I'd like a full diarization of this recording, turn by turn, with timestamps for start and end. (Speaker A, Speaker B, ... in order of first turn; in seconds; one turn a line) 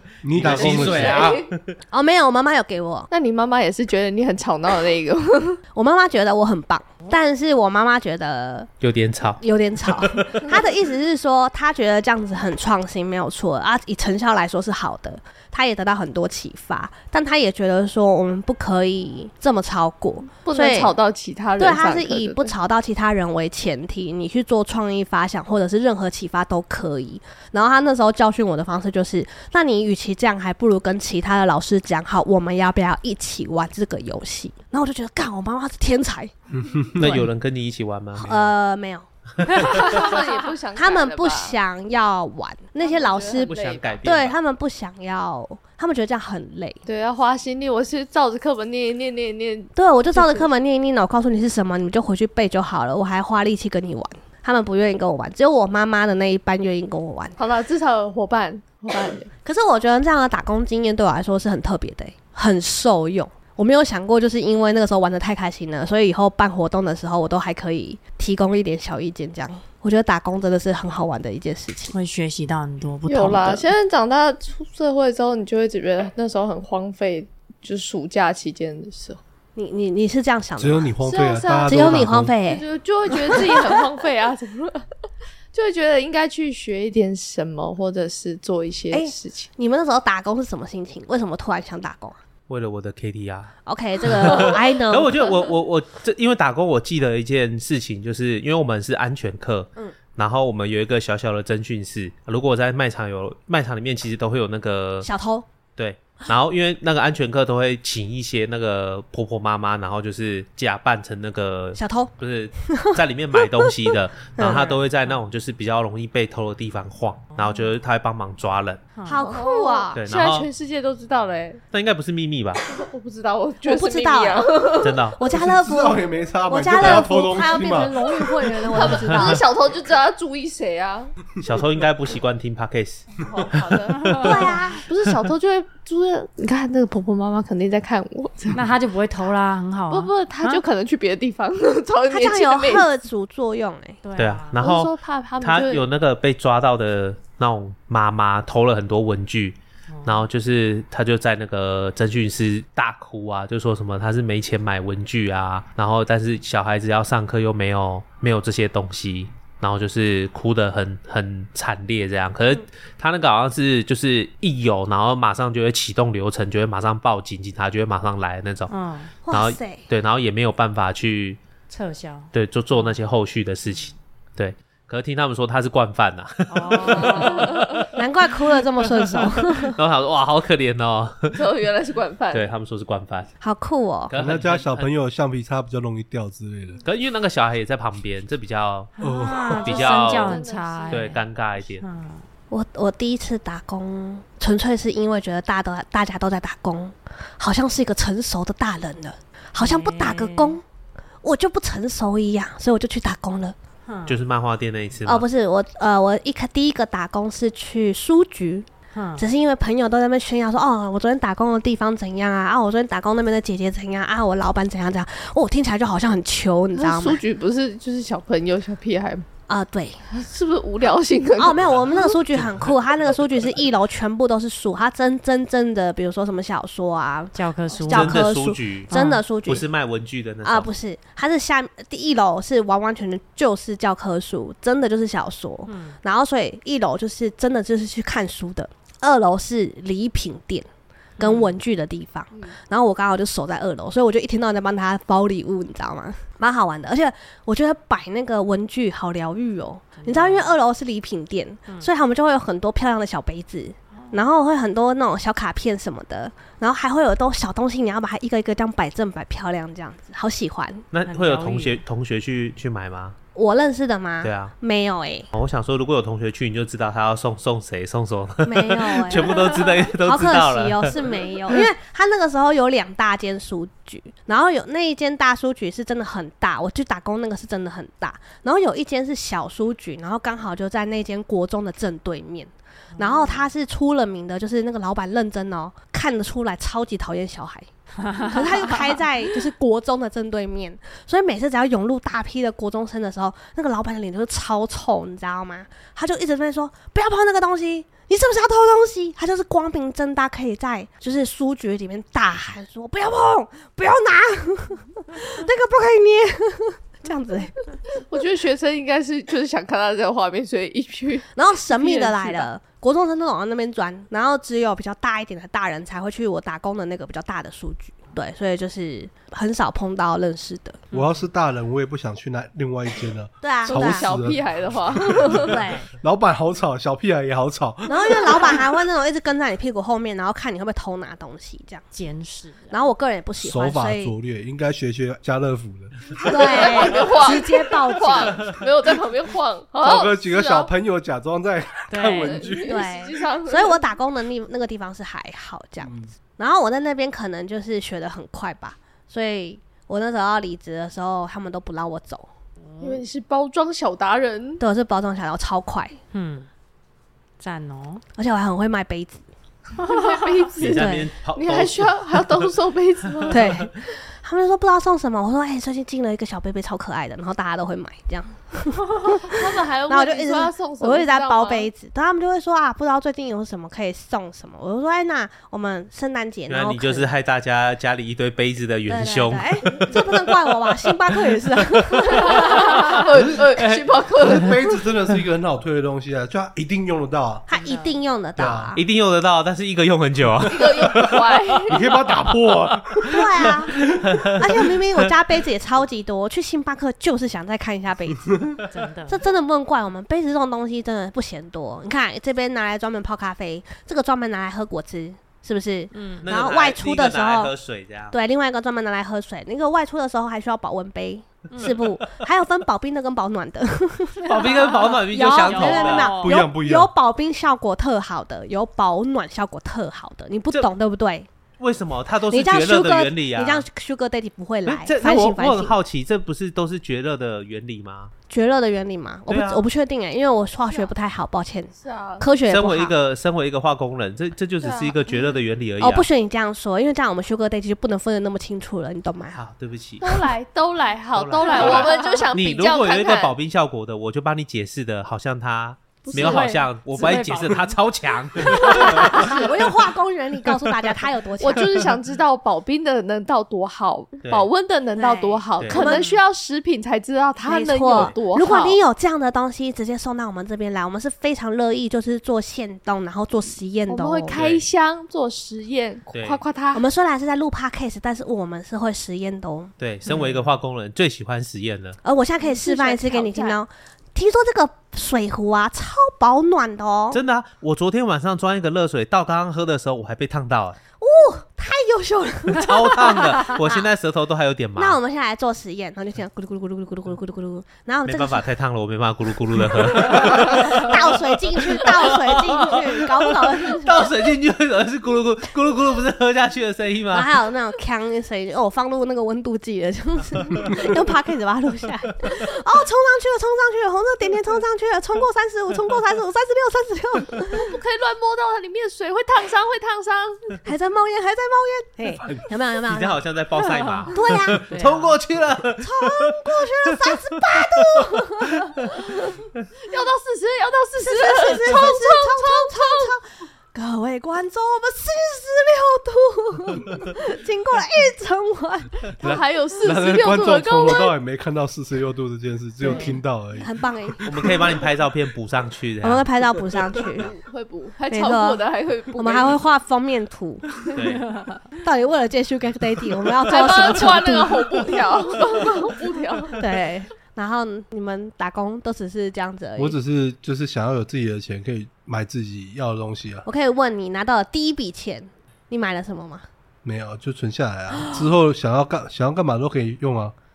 Speaker A: 0.2-1.4
Speaker B: 0.3-1.6
Speaker C: 0.4-1.5
Speaker D: 1.9-3.1
Speaker C: 3.1-5.6
Speaker D: 5.7-8.7
Speaker B: 8.8-10.5
Speaker D: 9.4-20.9
Speaker C: 20.4-22.5
Speaker D: 21.6-36.3
Speaker A: 36.6-37.1
Speaker B: 36.9-38.5
Speaker E: 37.0-37.3
Speaker D: 38.1-39.8
Speaker C: 39.5-41.5
Speaker B: 39.5-40.1
Speaker E: 39.6-40.1
Speaker D: 40.7-46.8
Speaker C: 42.8-44.0
Speaker B: 43.4-44.3
Speaker C: 46.9-50.5
Speaker D: 49.7-57.4
Speaker C: 57.4-59.3
Speaker D: 59.4-71.9
Speaker E: 71.9-73.7
Speaker C: 73.1-79.2
Speaker D: 79.5-80.9
Speaker A: 80.6-82.3
Speaker C: 81.0-84.9
Speaker D: 81.6-83.9
Speaker C: 85.5-89.5
Speaker D: 88.9-92.2
Speaker B: 92.5-93.5
Speaker D: 93.7-95.3
Speaker B: 94.0-105.1
Speaker D: 105.0-105.5
Speaker B: 105.8-118.8
Speaker D: 111.7-112.1
Speaker D: 112.6-114.8
Speaker E: 117.3-117.7
Speaker E: 119.0-119.2
Speaker D: 119.0-120.0
Speaker C: 119.2-121.6
Speaker B: 119.9-120.5
Speaker B: 121.7-122.6
Speaker C: 122.7-125.1
Speaker D: 123.6-124.6
Speaker B: 124.8-125.2
Speaker D: 125.2-129.5
Speaker A: 125.3-128.0
Speaker C: 128.3-131.1
Speaker B: 128.8-129.4
Speaker B: 131.4-133.2
Speaker C: 133.2-134.2
Speaker E: 133.8-134.6
Speaker D: 134.2-134.8
Speaker C: 134.9-138.6
Speaker E: 138.5-140.6
Speaker C: 139.9-142.8
Speaker D: 142.1-144.0
Speaker E: 144.0-144.6
Speaker B: 144.2-168.7
Speaker C: 144.6-145.8
Speaker E: 149.9-150.2
Speaker E: 168.7-169.1
Speaker D: 169.2-169.9
Speaker B: 169.3-171.4
Speaker E: 171.7-173.0
Speaker B: 172.3-177.9
Speaker E: 176.5-177.6
Speaker D: 177.9-179.8
Speaker B: 179.1-181.4
Speaker C: 181.3-182.5
Speaker B: 182.3-183.3
Speaker D: 183.4-184.1
Speaker B: 184.1-184.9
Speaker A: 184.1-186.8
Speaker B: 186.8-188.9
Speaker A: 189.0-189.8
Speaker E: 189.0-191.2
Speaker B: 189.6-191.8
Speaker C: 189.7-191.0
Speaker E: 191.8-192.2
Speaker D: 192.5-200.6
Speaker E: 199.6-200.6
Speaker D: 201.2-203.6
Speaker E: 203.8-204.2
Speaker B: 204.1-205.2
Speaker D: 205.1-217.2
Speaker E: 208.9-209.2
Speaker C: 216.8-219.2
Speaker D: 219.5-220.0
Speaker C: 220.1-222.1
Speaker D: 221.4-229.6
Speaker E: 227.3-228.3
Speaker B: 227.9-228.9
Speaker E: 228.9-229.2
Speaker B: 229.4-230.7
Speaker D: 230.4-240.7
Speaker E: 235.7-235.9
Speaker E: 241.2-241.5
Speaker D: 241.2-260.8
Speaker E: 250.0-250.5
Speaker E: 253.9-254.2
Speaker B: 260.9-263.1
Speaker E: 261.0-261.8
Speaker D: 263.3-265.3
Speaker B: 264.2-264.5
Speaker B: 265.3-271.0
Speaker D: 268.4-307.5
Speaker E: 282.9-283.5
Speaker E: 288.0-289.0
Speaker C: 308.1-312.5
Speaker D: 311.3-320.8
Speaker E: 320.9-321.3
Speaker A: 320.9-328.4
Speaker D: 323.4-324.1
Speaker C: 323.7-325.6
Speaker D: 325.5-325.8
Speaker E: 325.5-325.9
Speaker D: 327.9-331.8
Speaker E: 331.9-332.9
Speaker D: 332.7-334.1
Speaker A: 333.4-336.1
Speaker C: 336.2-340.7
Speaker D: 336.2-338.5
Speaker A: 339.8-342.9
Speaker E: 341.9-342.5
Speaker C: 342.2-343.8
Speaker D: 342.6-352.3
Speaker A: 345.8-346.1
Speaker E: 352.6-353.0
Speaker C: 352.8-354.6
Speaker D: 354.6-356.0
Speaker E: 356.1-356.5
Speaker E: 357.4-358.0
Speaker D: 358.2-359.2
Speaker C: 359.8-363.6
Speaker E: 359.8-360.3
Speaker B: 360.6-362.5
Speaker D: 360.7-361.1
Speaker B: 363.3-363.5
Speaker D: 363.3-377.1
Speaker C: 369.1-371.7
Speaker B: 376.5-380.1
Speaker D: 378.9-382.9
Speaker B: 381.6-381.9
Speaker C: 382.1-384.8
Speaker A: 383.0-387.5
Speaker D: 387.5-388.8
Speaker E: 387.5-388.0
Speaker A: 388.4-388.7
Speaker B: 388.8-391.1
Speaker C: 390.5-392.1
Speaker A: 390.8-391.2
Speaker A: 391.7-393.5
Speaker D: 393.1-398.5
Speaker B: 393.9-395.1
Speaker E: 398.7-399.2
Speaker D: 399.1-407.5
Speaker E: 405.9-406.3
Speaker B: 406.2-408.1
Speaker D: 408.1-421.3
Speaker E: 411.5-411.8
Speaker B: 411.7-412.2
Speaker B: 414.2-416.1
Speaker E: 414.7-416.4
Speaker A: 416.2-416.9
Speaker B: 421.6-423.6
Speaker D: 422.3-425.8
Speaker B: 424.6-428.1
Speaker D: 428.3-432.9
Speaker B: 429.3-429.7
Speaker C: 431.7-432.2
Speaker B: 432.5-436.1
Speaker C: 434.6-435.2
Speaker D: 435.8-439.4
Speaker B: 439.3-440.3
Speaker C: 440.0-443.3
Speaker B: 441.1-449.3
Speaker E: 441.4-442.2
Speaker E: 446.1-447.7
Speaker C: 446.1-446.5
Speaker E: 448.4-449.1
Speaker D: 448.6-451.7
Speaker C: 448.7-449.5
Speaker C: 451.4-458.8
Speaker B: 454.2-454.5
Speaker D: 455.0-456.1
Speaker B: 455.6-455.9
Speaker E: 455.8-456.1
Speaker D: 457.4-464.4
Speaker C: 463.9-466.8
Speaker B: 464.3-464.6
Speaker B: 466.1-466.4
Speaker D: 466.7-469.7
Speaker B: 469.8-472.0
Speaker E: 470.1-470.4
Speaker D: 472.0-477.2
Speaker C: 472.4-473.6
Speaker B: 477.1-480.8
Speaker D: 481.0-483.9
Speaker B: 482.5-485.0
Speaker D: 484.8-488.5
Speaker B: 488.1-497.3
Speaker D: 489.8-494.3
Speaker D: 497.1-507.8
Speaker C: 507.5-510.6
Speaker D: 510.6-513.2
Speaker A: 512.1-512.5
Speaker B: 512.9-518.9
Speaker E: 513.6-515.2
Speaker D: 514.1-514.7
Speaker D: 515.8-519.0
Speaker C: 519.8-523.1
Speaker D: 521.0-529.1
Speaker C: 529.2-531.1
Speaker A: 529.8-533.7
Speaker E: 532.8-533.2
Speaker D: 532.8-534.5
Speaker B: 534.2-536.3
Speaker D: 536.0-537.3
Speaker C: 537.0-539.6
Speaker D: 538.1-538.6
Speaker D: 539.1-540.7
Speaker B: 540.9-541.3
Speaker E: 541.0-541.6
Speaker D: 541.8-545.0
Speaker C: 543.5-546.6
Speaker D: 546.5-550.0
Speaker A: 549.8-553.5
Speaker D: 553.5-556.5
Speaker A: 556.8-560.3